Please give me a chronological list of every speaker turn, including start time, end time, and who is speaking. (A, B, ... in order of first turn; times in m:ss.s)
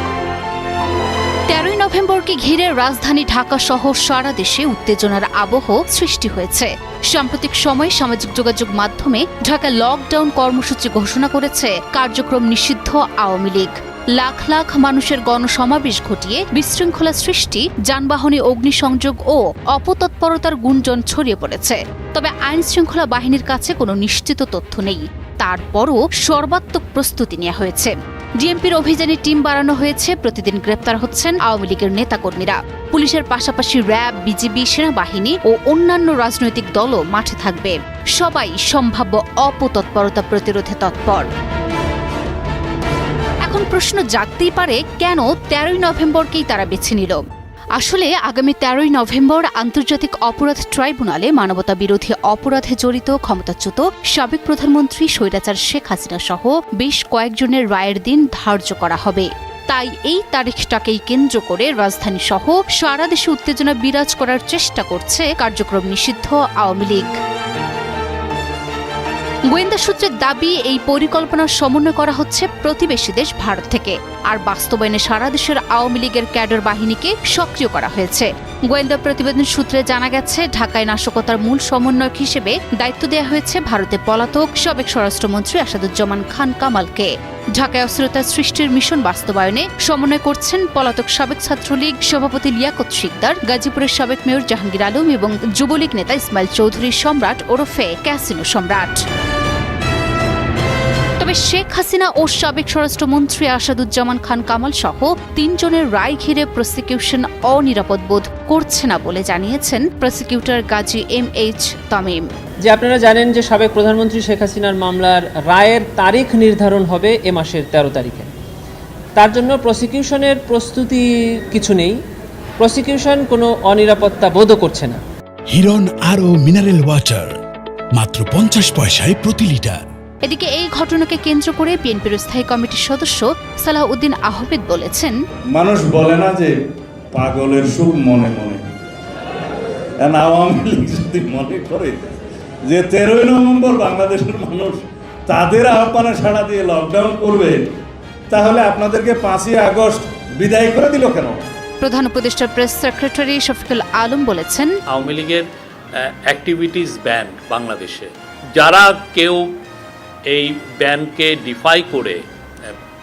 0:01.5-0:41.3 A
0:43.4-0:47.2 A
0:47.8-1:07.1 A
1:09.5-1:39.0 A
1:41.2-1:52.2 A
1:52.6-1:58.3 B
1:59.2-2:02.0 B
2:02.6-2:05.0 B
2:05.5-2:07.4 C
2:07.9-2:09.9 C
2:10.2-2:15.2 A
2:15.5-2:16.5 D
2:17.1-2:18.6 D
2:20.0-2:27.6 D
2:28.3-2:31.5 D
2:31.8-2:34.7 A
2:34.9-2:39.5 E
2:40.3-2:42.8 E